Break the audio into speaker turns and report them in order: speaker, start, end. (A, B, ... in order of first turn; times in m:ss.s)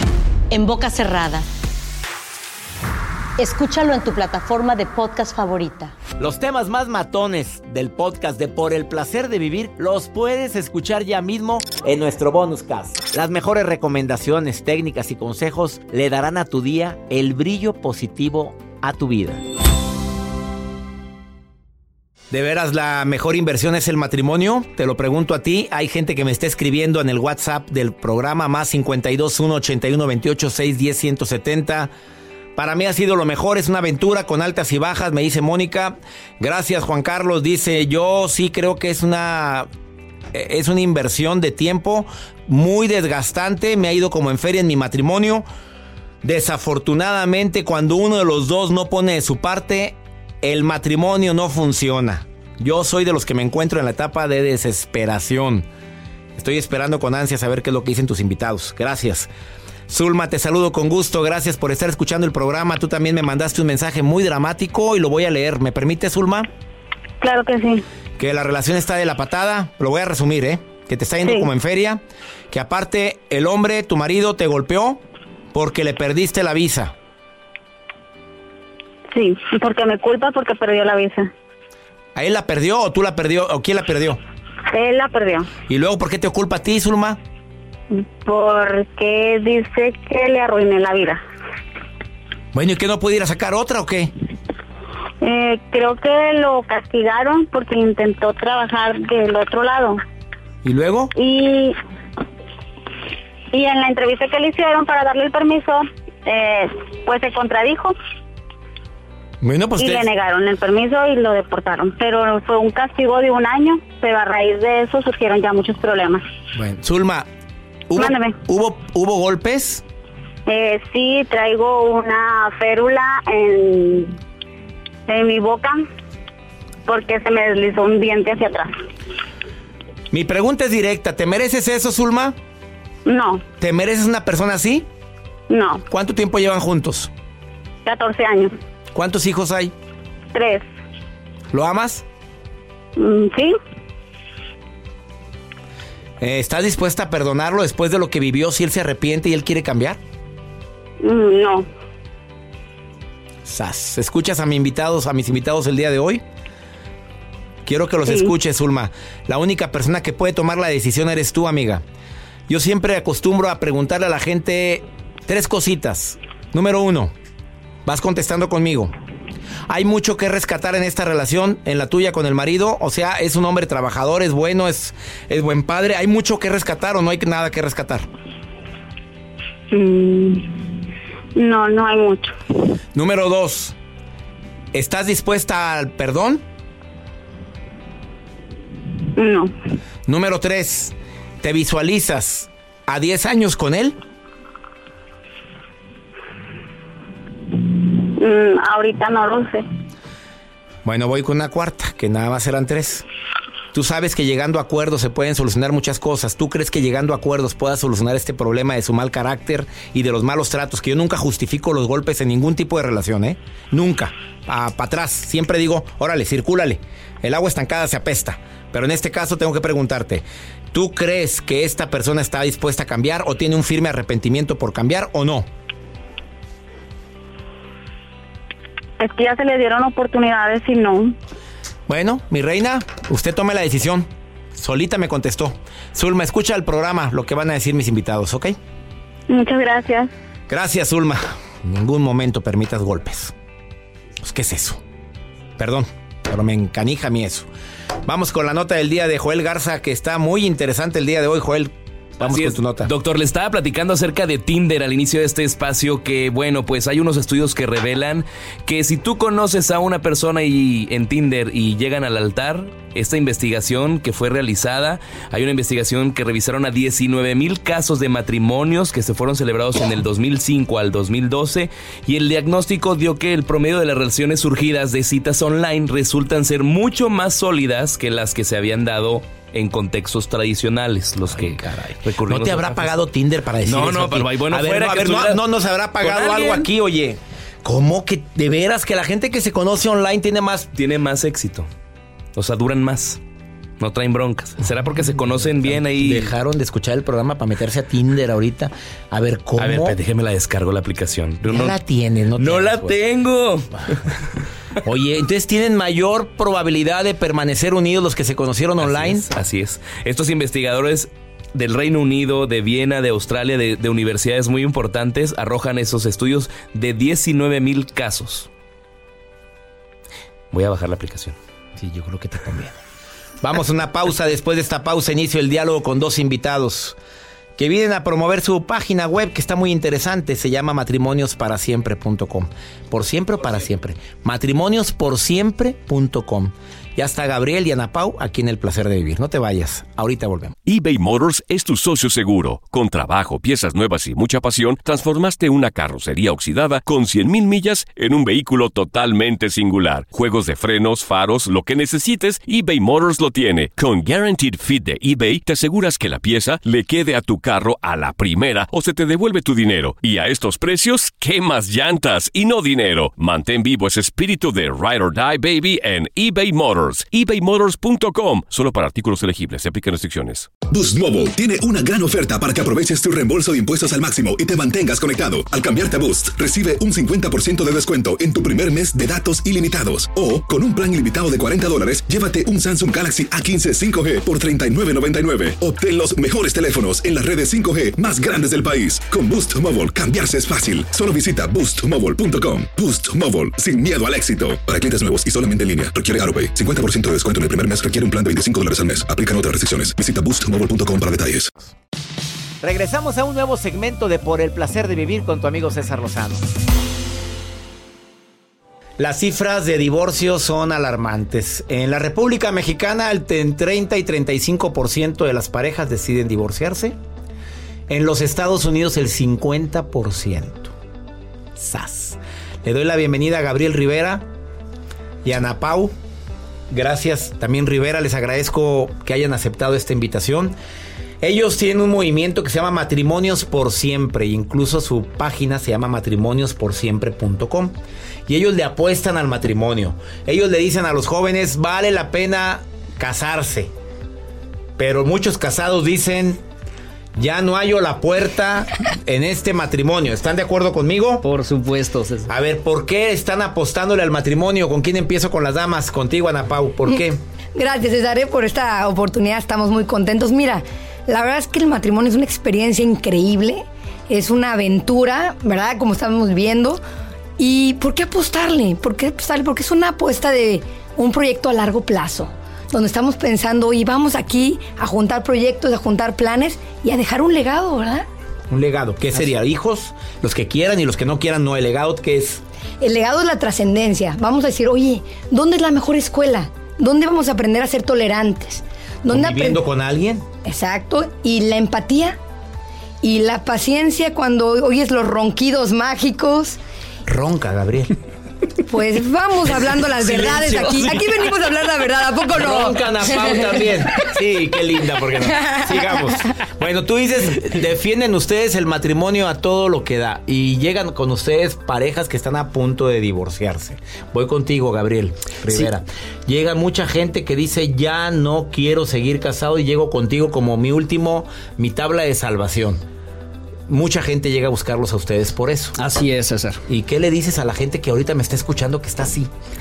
0:00.5-0:01.5 A
0:03.4-0:05.9 A
0:06.2-0:19.4 B
0:22.3-0:31.9 B
0:32.6-0:39.7 B
0:40.3-0:45.5 B
0:46.2-0:55.7 B
0:56.4-0:59.3 B
0:59.9-1:06.5 B
1:07.2-1:07.8 C
1:08.2-1:15.0 B
1:15.5-1:16.9 B
1:19.1-1:21.3 C
1:22.2-1:24.2 B
1:24.7-1:25.5 C
1:25.7-1:27.2 B
1:27.9-1:31.2 C
1:32.5-1:34.1 B
1:35.2-1:40.0 C
1:40.6-1:41.1 B
1:41.2-1:41.8 C
1:43.5-1:48.0 C
1:49.4-1:50.1 B
1:49.8-1:56.2 C
1:56.6-1:57.3 B
1:57.9-1:59.8 B
1:58.0-1:58.4 C
2:00.5-2:04.2 C
2:05.1-2:05.8 C
2:06.9-2:08.8 C
2:10.1-2:12.4 B
2:13.1-2:13.4 C
2:13.6-2:14.9 B
2:15.5-2:15.8 C
2:15.9-2:17.1 B
2:17.8-2:18.5 C
2:18.9-2:19.7 B
2:20.3-2:20.7 C
2:21.5-2:22.0 B
2:23.0-2:23.6 C
2:26.2-2:30.0 B
2:31.0-2:31.7 C
2:33.4-2:36.2 B
2:37.7-2:41.8 B
2:38.1-2:38.3 C
2:42.5-2:47.1 B
2:47.9-2:48.9 B
2:49.7-2:58.1 B
2:59.7-3:00.6 C
3:01.4-3:02.4 C
3:03.0-3:03.8 B
3:04.7-3:06.4 B
3:09.2-3:09.5 C
3:10.1-3:14.0 B
3:17.6-3:19.6 C
3:20.8-3:23.0 B
3:23.7-3:45.5 B
3:49.0-3:51.2 C
3:51.9-3:58.6 B
3:59.3-4:00.1 C
4:00.5-4:03.3 B
4:04.2-4:04.8 B
4:05.6-4:07.5 B
4:08.1-4:12.9 B
4:12.2-4:42.9 D
4:41.3-4:50.7 B
4:43.6-4:45.4 D
4:46.0-4:46.7 D
4:50.7-4:51.7 D
4:52.4-4:53.2 D
4:53.8-4:56.3 D
4:55.4-5:00.0 B
4:59.6-5:01.8 D
5:01.5-5:03.0 B
5:02.4-5:04.1 D
5:04.8-5:09.3 B
5:08.8-5:18.5 D
5:20.5-5:21.4 D
5:21.8-5:22.8 B
5:23.4-5:27.0 B
5:27.6-5:40.6 B
5:40.7-6:10.5 E
6:10.7-6:41.5 F
6:42.6-6:46.5 B
6:49.0-6:57.0 B
6:57.9-7:00.7 B
7:01.6-7:04.3 B
7:05.2-7:05.9 B
7:06.7-7:10.6 B
7:11.2-7:17.7 B
7:18.3-7:23.7 B
7:24.8-7:26.4 B
7:27.2-7:31.2 B
7:31.2-7:32.3 G
7:32.3-7:37.2 B
7:37.6-7:46.8 H
7:47.4-7:58.1 H
7:58.5-8:02.4 B
8:02.8-8:09.6 H
8:09.1-8:10.2 B
8:10.4-8:12.2 H
8:13.0-8:16.6 H
8:17.1-8:18.0 B
8:18.7-8:23.6 H
8:19.4-8:21.3 B
8:22.3-8:42.8 B
8:25.4-8:25.7 H
8:43.7-8:45.8 B
8:45.8-8:46.6 G
8:46.7-8:49.3 B